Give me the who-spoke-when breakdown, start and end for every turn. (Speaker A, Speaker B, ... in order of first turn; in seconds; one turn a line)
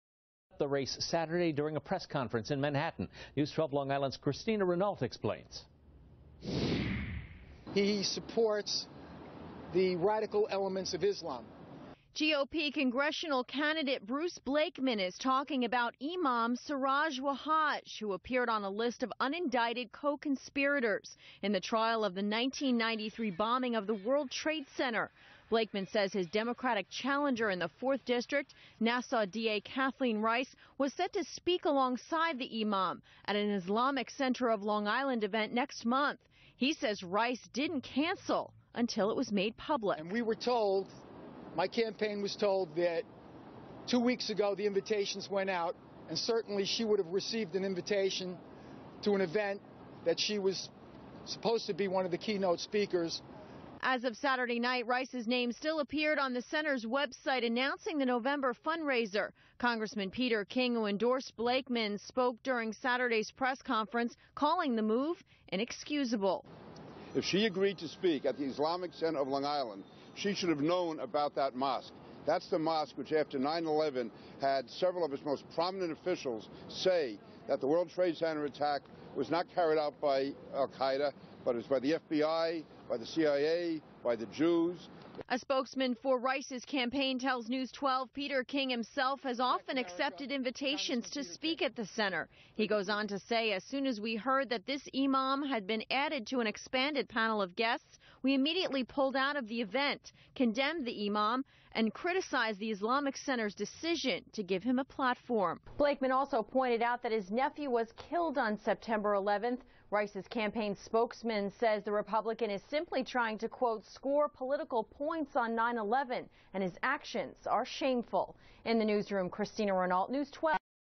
Speaker A: 0.6-5.7
Speaker B: 7.7-8.9
Speaker B: 9.7-11.5
Speaker C: 12.1-40.0
Speaker B: 40.0-40.9
Speaker B: 41.5-43.0
Speaker B: 43.9-48.4
Speaker B: 49.0-50.7
Speaker B: 51.2-53.2
Speaker C: 53.8-66.5
Speaker D: 67.1-84.9
Speaker C: 85.3-120.6
Speaker B: 89.5-91.6